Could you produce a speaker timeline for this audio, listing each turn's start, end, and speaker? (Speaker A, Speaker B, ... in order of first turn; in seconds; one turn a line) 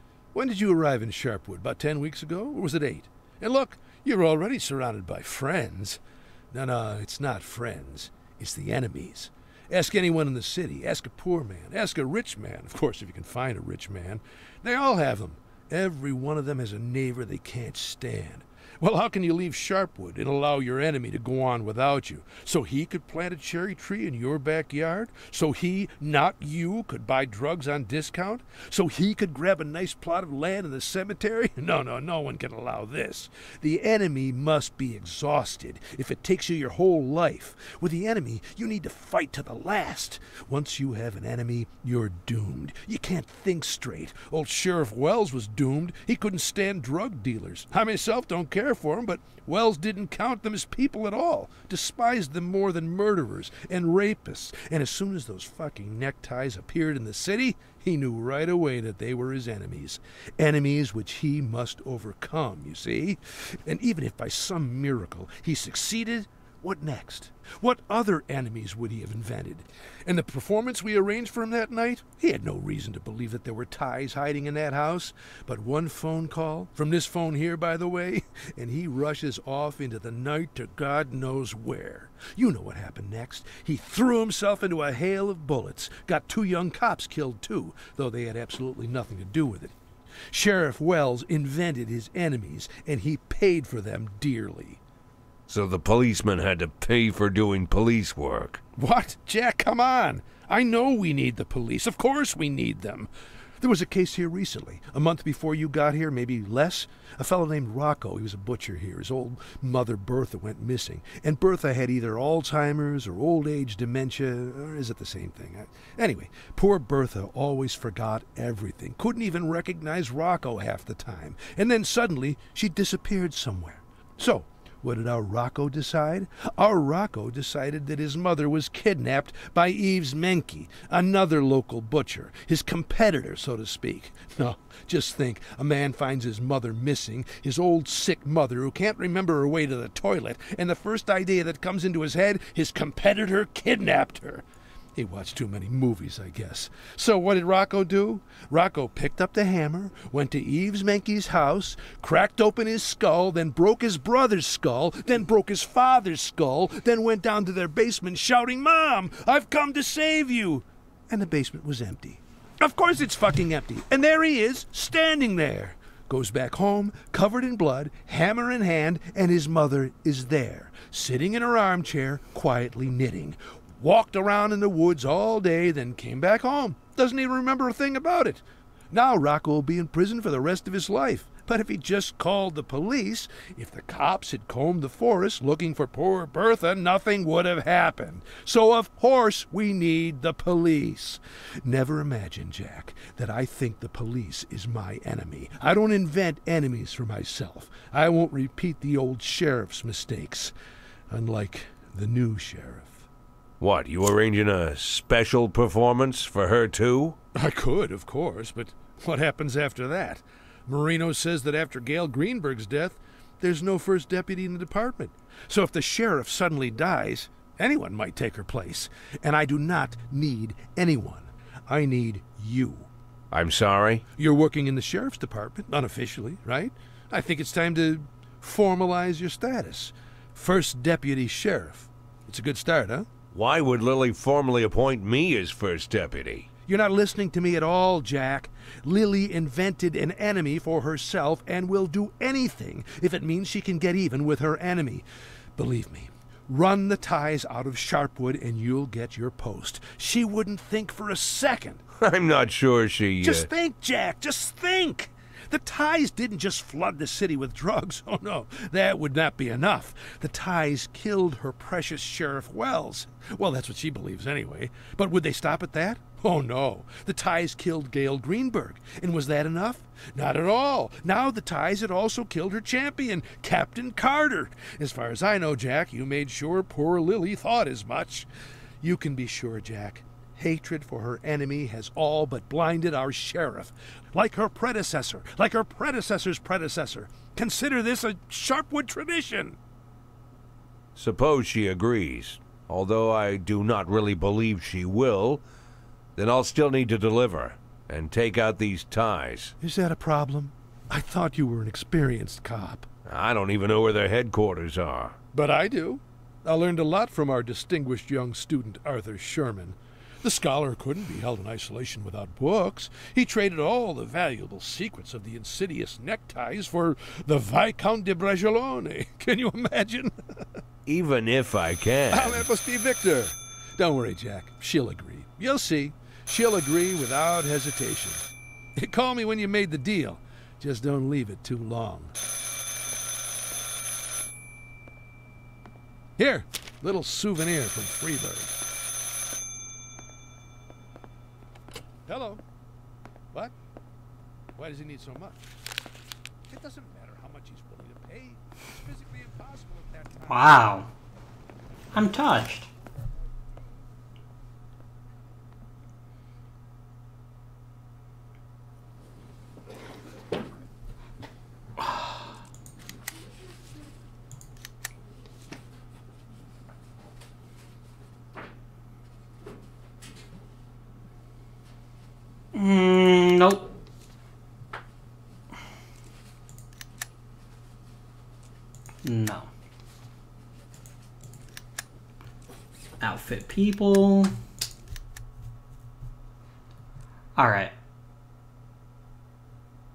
Speaker A: 0.3-89.7
Speaker A: 90.3-94.8
Speaker B: 95.5-98.6
Speaker A: 98.8-103.1
Speaker A: 103.6-200.5
Speaker A: 201.1-203.1
Speaker B: 203.6-207.2
Speaker A: 207.3-222.9
Speaker B: 223.3-224.0
Speaker A: 224.2-233.1
Speaker B: 233.3-236.5
Speaker A: 236.7-245.0
Speaker A: 245.6-251.8
Speaker B: 252.0-253.5
Speaker A: 253.2-278.3
Speaker A: 278.8-289.6
Speaker B: 290.9-295.4
Speaker B: 296.1-299.5
Speaker A: 299.6-302.9
Speaker B: 303.1-305.2
Speaker A: 305.3-320.6
Speaker B: 320.9-322.4
Speaker A: 322.1-332.1
Speaker A: 336.2-338.6
Speaker A: 342.1-342.4
Speaker A: 344.6-345.5
Speaker A: 346.5-350.8
Speaker C: 350.3-350.9
Speaker C: 351.9-352.7
Speaker C: 361.8-362.2
Speaker C: 372.5-373.7
Speaker C: 379.0-379.5
Speaker C: 383.0-384.3
Speaker C: 387.4-387.7